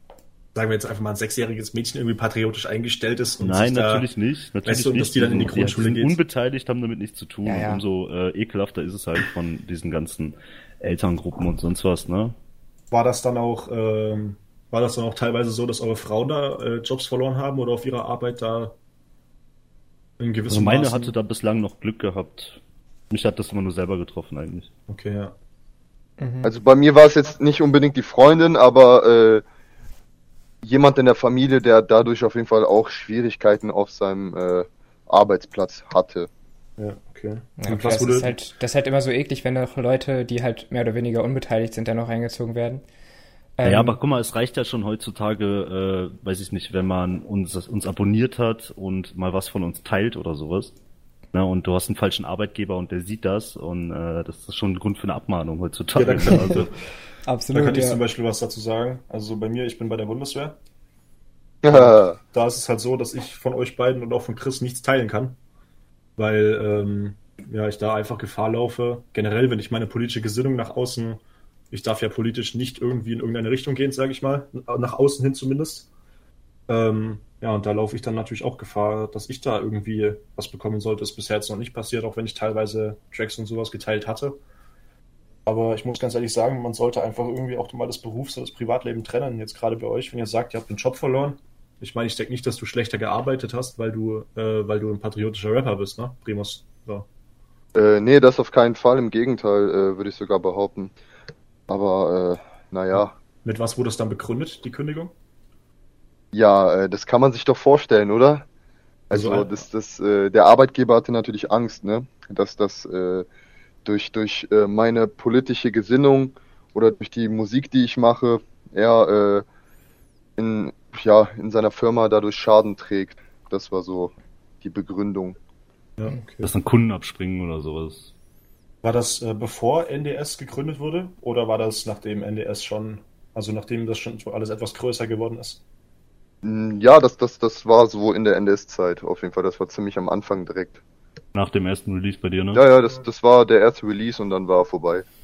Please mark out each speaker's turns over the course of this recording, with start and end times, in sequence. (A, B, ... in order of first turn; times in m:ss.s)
0:00.5-0:04.1 A
0:03.4-0:12.3 B
0:04.6-0:06.2 A
0:07.4-0:07.8 C
0:12.9-0:18.7 A
0:20.2-0:21.1 A
0:20.5-0:22.6 B
0:23.1-0:24.7 B
0:24.9-0:25.3 A
0:26.2-0:26.5 C
0:26.4-0:29.4 D
0:30.6-0:36.3 D
0:36.8-0:38.3 A
0:37.6-0:42.8 C
0:43.6-0:44.0 C
0:43.6-0:50.8 B
0:51.3-0:56.7 B
0:55.9-0:56.7 A
0:57.2-0:58.0 C
0:57.5-1:00.6 A
1:01.6-1:02.2 D
1:01.7-1:05.4 A
1:06.2-1:15.9 A
1:16.7-1:24.4 A
1:25.4-1:37.0 A
1:37.7-1:40.9 D
1:41.7-1:43.1 D
1:43.4-1:45.1 A
1:46.3-1:48.4 D
1:49.1-1:53.3 D
1:49.1-1:49.5 A
1:53.8-1:59.4 D
2:00.4-2:05.4 D
2:06.0-2:06.5 A
2:06.4-2:08.1 B
2:08.8-2:15.6 A
2:16.4-2:20.8 D
2:21.3-2:22.6 B
2:22.5-2:25.0 D